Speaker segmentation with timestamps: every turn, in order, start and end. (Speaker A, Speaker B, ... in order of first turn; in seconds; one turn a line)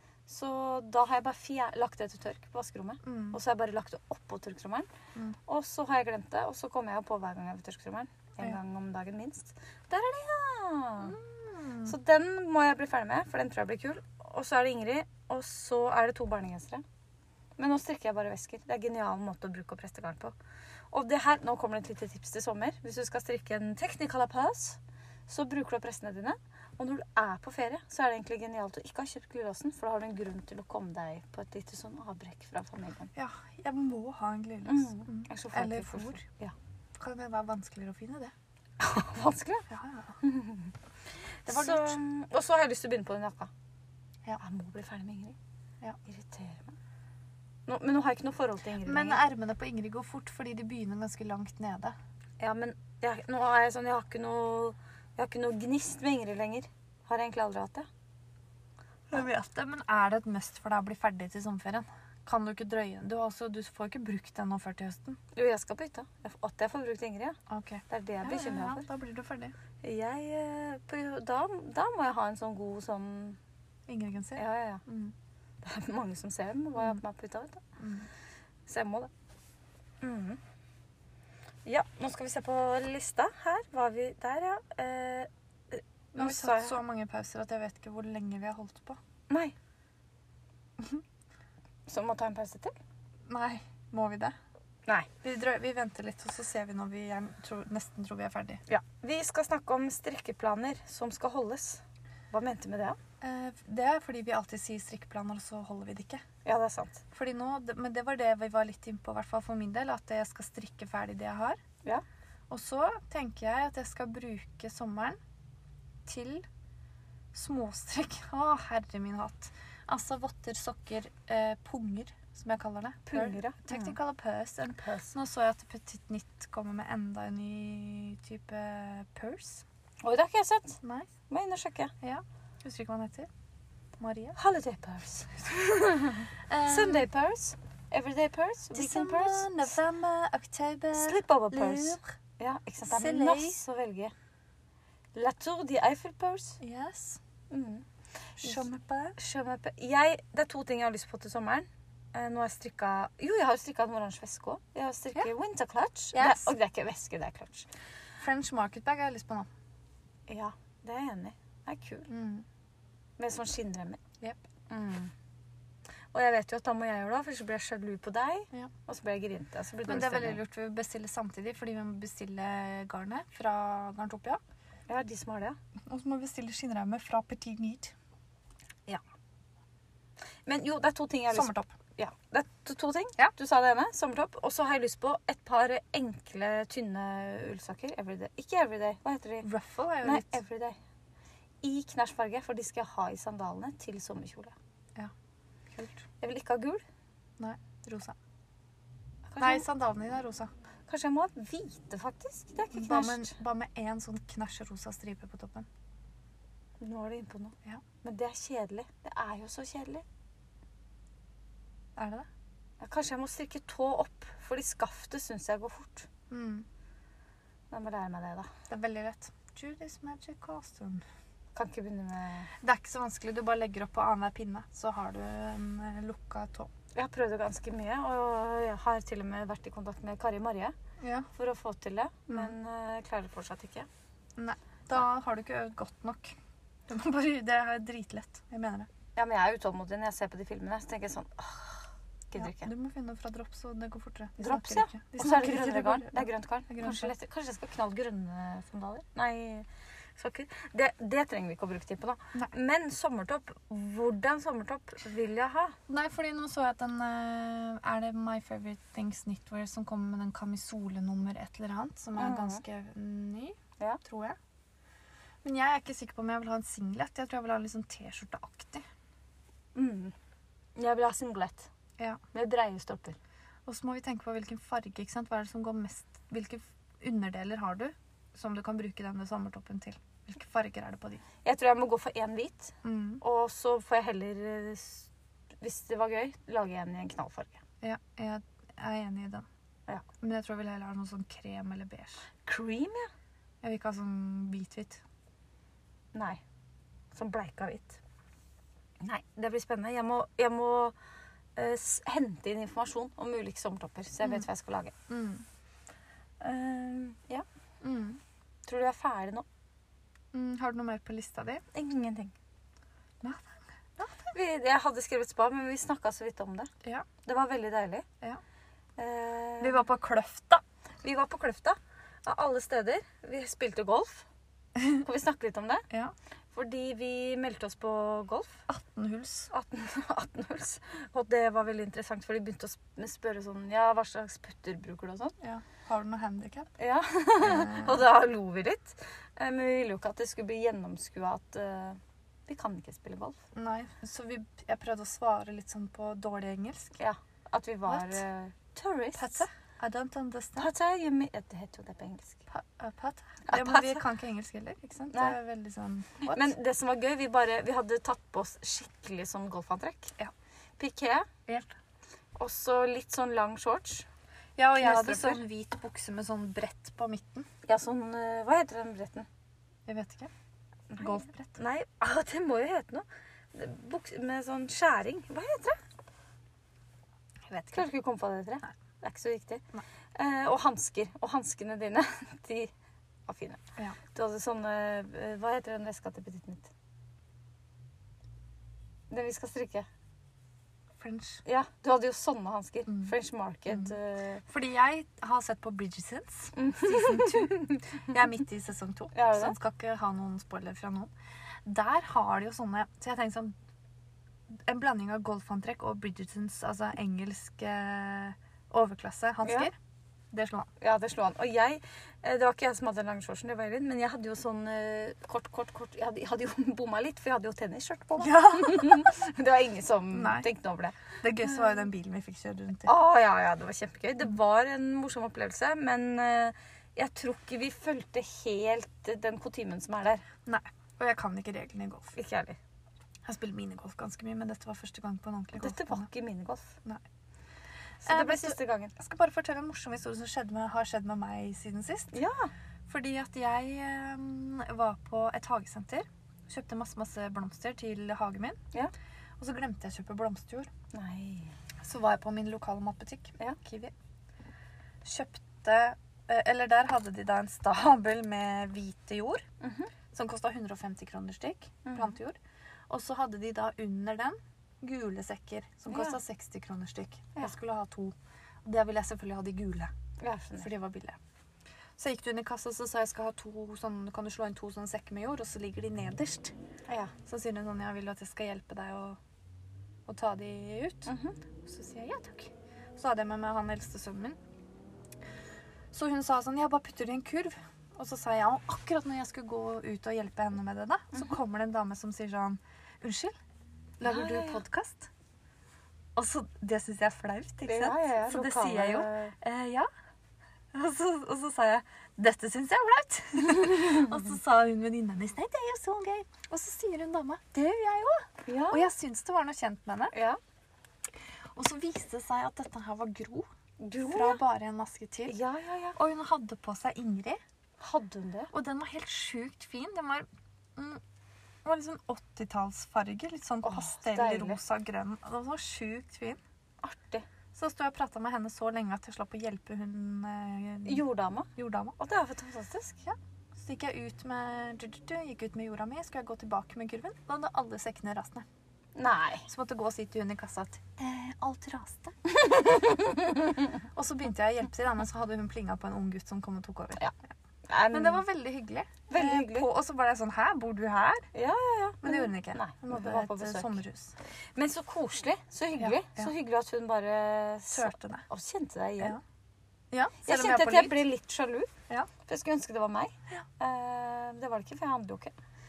Speaker A: 0.3-4.9
Speaker B: 3.0-3.4
Speaker A: 5.5-11.2
Speaker B: 11.0-11.9
Speaker A: 11.8-16.8
Speaker A: 17.6-20.4
Speaker A: 20.9-33.1
Speaker B: 33.1-36.2
Speaker A: 34.7-36.5
Speaker B: 37.0-38.3
Speaker A: 38.8-39.7
Speaker B: 39.7-40.2
Speaker A: 40.2-40.7
Speaker A: 41.5-43.5
Speaker B: 41.5-42.0
Speaker A: 44.4-45.4
Speaker A: 46.1-46.8
Speaker A: 47.7-49.2
Speaker B: 48.8-52.0
Speaker A: 52.4-57.9
Speaker B: 59.1-65.2
Speaker A: 65.3-68.9
Speaker B: 67.5-69.5
Speaker A: 69.8-73.4
Speaker B: 73.9-75.1
Speaker A: 74.4-74.8
Speaker A: 75.6-77.6
Speaker B: 77.8-78.1
Speaker A: 78.7-79.1
Speaker A: 80.0-80.4
Speaker A: 81.7-86.8
Speaker B: 86.1-89.0
Speaker A: 89.3-89.5
Speaker A: 91.9-92.8
Speaker B: 93.3-94.3
Speaker B: 95.2-98.6
Speaker A: 98.7-103.0
Speaker B: 103.2-106.2
Speaker A: 106.5-107.0
Speaker B: 107.1-111.6
Speaker B: 112.5-115.2
Speaker B: 116.0-116.5
Speaker B: 117.3-129.6
Speaker A: 123.1-124.0
Speaker A: 124.8-125.1
Speaker A: 130.0-131.9
Speaker B: 130.8-131.1
Speaker B: 132.0-133.3
Speaker B: 134.0-134.4
Speaker A: 134.4-139.7
Speaker B: 136.3-137.1
Speaker B: 138.7-142.1
Speaker A: 140.9-144.1
Speaker B: 142.9-143.6
Speaker A: 145.2-146.6
Speaker B: 146.6-147.2
Speaker A: 147.5-147.8
Speaker A: 148.4-148.6
Speaker B: 148.4-149.2
Speaker A: 149.2-157.7
Speaker B: 156.1-156.6
Speaker B: 158.2-159.5
Speaker A: 160.3-162.1
Speaker B: 162.1-162.5
Speaker A: 163.2-164.0
Speaker A: 164.7-165.1
Speaker A: 166.1-170.4
Speaker B: 169.9-174.4
Speaker A: 174.9-175.6
Speaker B: 175.9-177.9
Speaker A: 180.5-189.5
Speaker B: 181.3-181.7
Speaker B: 189.4-190.4
Speaker A: 190.0-190.8
Speaker A: 191.6-194.5
Speaker B: 195.7-196.0
Speaker A: 196.2-196.8
Speaker B: 197.4-198.2
Speaker A: 199.3-199.7
Speaker B: 199.4-200.5
Speaker A: 200.9-203.3
Speaker B: 202.7-205.7
Speaker A: 206.8-210.0
Speaker B: 212.0-212.3
Speaker A: 212.8-216.1
Speaker B: 216.3-216.7
Speaker A: 217.7-218.5
Speaker B: 218.7-221.0
Speaker A: 221.6-222.5
Speaker B: 222.6-226.7
Speaker A: 226.9-230.8
Speaker B: 231.0-231.3
Speaker A: 231.3-233.9
Speaker B: 234.4-236.3
Speaker B: 236.9-238.9
Speaker A: 239.2-242.7
Speaker B: 242.4-247.1
Speaker A: 244.4-255.8
Speaker B: 255.9-264.4
Speaker A: 262.2-262.6
Speaker B: 265.4-268.9
Speaker A: 269.8-270.1
Speaker A: 270.8-271.7
Speaker A: 272.3-273.2
Speaker B: 273.7-281.2
Speaker A: 281.4-285.1
Speaker B: 282.8-283.2
Speaker A: 285.6-287.6
Speaker B: 287.8-289.5
Speaker B: 290.2-292.2
Speaker A: 292.4-293.1
Speaker B: 293.6-295.0
Speaker A: 296.1-296.4
Speaker A: 297.1-298.0
Speaker A: 299.0-300.9
Speaker A: 301.6-304.9
Speaker B: 305.1-305.4
Speaker A: 306.4-307.4
Speaker B: 307.8-308.2
Speaker A: 308.7-309.5
Speaker B: 310.3-311.6
Speaker A: 311.7-312.3
Speaker B: 313.2-314.2
Speaker A: 314.3-316.7
Speaker A: 317.2-318.1
Speaker A: 319.0-319.8
Speaker B: 319.6-320.6
Speaker A: 321.0-324.3
Speaker A: 324.9-325.9
Speaker A: 326.5-328.6
Speaker B: 328.7-329.5
Speaker A: 329.5-335.4
Speaker B: 335.4-336.7
Speaker A: 336.8-343.4
Speaker B: 337.4-338.0
Speaker B: 343.6-347.0
Speaker A: 347.0-349.5
Speaker B: 347.9-348.2
Speaker B: 349.2-350.7
Speaker A: 350.6-352.4
Speaker B: 352.5-356.5
Speaker A: 353.5-354.0
Speaker A: 356.2-360.2
Speaker A: 360.8-361.3
Speaker B: 361.5-361.7
Speaker A: 362.4-364.1
Speaker B: 364.6-367.5
Speaker A: 364.8-365.4
Speaker A: 367.7-369.3
Speaker B: 369.9-370.3
Speaker A: 370.9-375.8
Speaker B: 371.0-371.6
Speaker B: 377.5-377.8
Speaker A: 377.7-379.6
Speaker A: 380.1-382.7
Speaker A: 383.3-383.6
Speaker A: 384.1-386.7
Speaker A: 389.1-389.9
Speaker B: 391.0-391.4
Speaker A: 391.4-394.4
Speaker B: 392.9-393.1
Speaker B: 393.7-393.9
Speaker B: 394.5-401.1
Speaker A: 396.6-398.2
Speaker A: 399.1-399.6
Speaker B: 401.6-403.5
Speaker B: 404.6-409.7
Speaker A: 409.4-409.7
Speaker B: 410.3-410.7
Speaker A: 410.8-421.8
Speaker B: 418.2-419.1
Speaker B: 420.1-420.5
Speaker B: 421.2-422.9
Speaker A: 422.9-430.2
Speaker B: 430.4-432.2
Speaker A: 432.2-432.6
Speaker B: 433.2-436.1
Speaker A: 435.6-436.8
Speaker A: 438.0-438.9
Speaker B: 438.1-442.1
Speaker A: 442.1-442.5
Speaker B: 442.9-448.6
Speaker B: 449.4-450.7
Speaker A: 450.9-451.6
Speaker B: 451.8-453.9
Speaker B: 455.0-459.4
Speaker A: 459.6-459.9
Speaker B: 460.1-462.4
Speaker A: 461.9-462.2
Speaker B: 462.9-469.9
Speaker A: 465.9-466.2
Speaker A: 470.2-470.7
Speaker B: 470.6-471.2
Speaker B: 472.0-476.5
Speaker A: 476.9-477.1
Speaker B: 477.3-479.2
Speaker B: 480.1-481.1
Speaker A: 481.1-481.4
Speaker B: 481.6-484.4
Speaker B: 485.9-493.4
Speaker B: 494.0-495.1
Speaker A: 494.1-494.6
Speaker B: 496.1-499.9
Speaker A: 497.7-499.3
Speaker B: 500.7-510.1
Speaker A: 508.5-508.9
Speaker A: 510.1-510.4
Speaker B: 511.6-513.5
Speaker A: 513.8-514.4
Speaker B: 514.0-515.4
Speaker A: 515.3-516.0
Speaker B: 516.0-517.4
Speaker A: 517.8-518.5
Speaker B: 518.5-521.0
Speaker B: 521.6-526.4
Speaker A: 523.6-524.6
Speaker A: 526.8-527.3
Speaker B: 527.5-531.0
Speaker A: 530.9-533.0
Speaker B: 531.6-532.0
Speaker B: 533.0-538.5
Speaker A: 539.0-539.5
Speaker B: 539.5-542.2
Speaker A: 542.4-543.5
Speaker B: 543.9-547.1
Speaker A: 547.7-548.2
Speaker B: 547.9-551.3
Speaker A: 549.1-549.7
Speaker A: 551.3-553.8
Speaker B: 552.0-554.1
Speaker A: 554.6-559.2
Speaker B: 555.8-556.3
Speaker B: 557.7-558.3
Speaker B: 559.9-561.0
Speaker A: 560.2-561.7
Speaker A: 562.2-565.3